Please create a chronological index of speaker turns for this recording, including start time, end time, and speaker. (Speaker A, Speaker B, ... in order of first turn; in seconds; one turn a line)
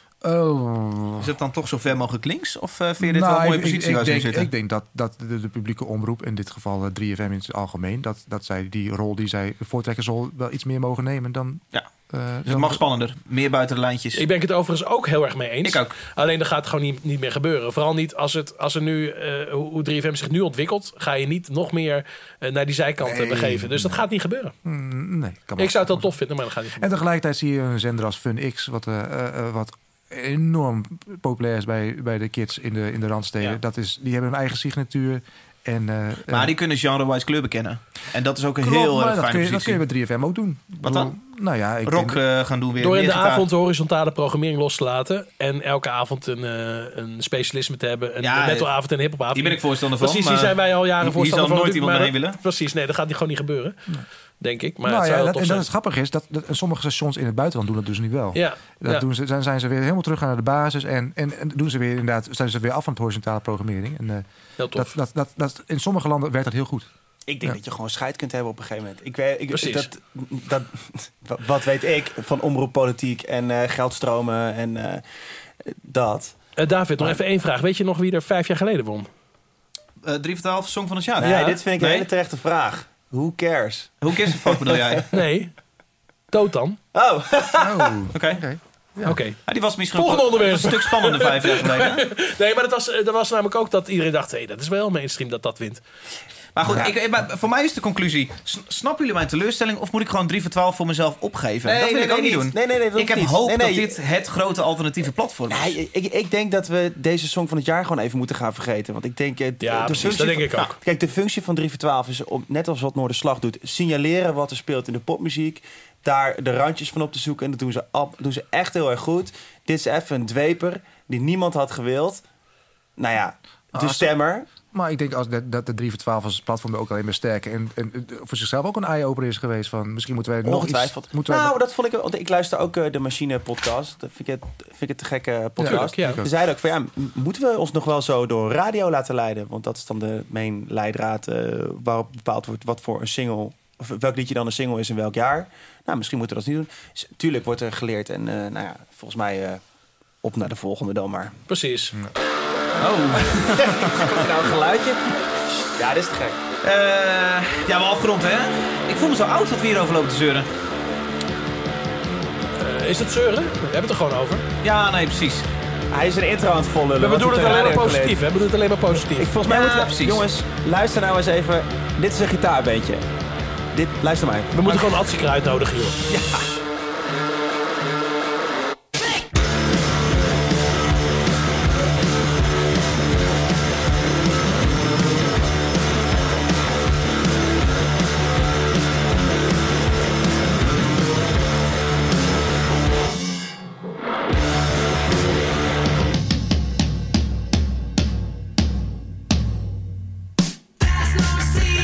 Speaker A: 0.2-1.3
Speaker B: 1.2-4.5
Speaker A: 3.0-12.8
Speaker B: 12.4-14.2
Speaker C: 14.1-24.5
Speaker B: 15.6-15.9
Speaker A: 23.0-24.0
Speaker A: 24.6-26.1
Speaker C: 25.6-26.9
Speaker A: 26.8-36.5
Speaker B: 36.3-39.8
Speaker A: 38.6-42.2
Speaker B: 40.8-41.1
Speaker B: 41.9-43.5
Speaker C: 42.8-53.8
Speaker B: 48.2-48.7
Speaker B: 49.3-52.4
Speaker C: 54.4-55.6
Speaker A: 54.8-66.9
Speaker C: 58.3-59.0
Speaker C: 64.6-64.9
Speaker D: 67.3-75.0
Speaker C: 69.5-69.9
Speaker D: 75.6-76.3
Speaker C: 76.6-79.1
Speaker B: 80.0-82.1
Speaker D: 81.2-85.0
Speaker C: 81.2-81.5
Speaker B: 84.0-85.1
Speaker C: 85.1-85.5
Speaker C: 86.3-86.8
Speaker D: 86.9-88.0
Speaker A: 87.6-89.2
Speaker B: 88.1-88.4
Speaker C: 89.0-89.4
Speaker B: 89.5-92.1
Speaker C: 89.9-95.8
Speaker B: 96.5-105.7
Speaker D: 101.6-104.0
Speaker D: 105.5-122.2
Speaker C: 109.6-110.7
Speaker D: 123.0-124.5
Speaker A: 123.7-124.2
Speaker A: 124.7-131.5
Speaker D: 130.4-149.6
Speaker A: 135.6-136.3
Speaker C: 135.6-136.2
Speaker D: 150.2-151.3
Speaker C: 151.5-151.9
Speaker B: 152.8-154.2
Speaker D: 153.5-155.1
Speaker D: 155.6-156.4
Speaker B: 156.6-160.5
Speaker C: 162.6-164.4
Speaker B: 164.6-165.4
Speaker D: 165.9-168.2
Speaker C: 167.0-169.3
Speaker D: 169.2-173.0
Speaker B: 169.4-170.2
Speaker D: 173.7-174.9
Speaker C: 174.5-176.0
Speaker D: 176.1-176.5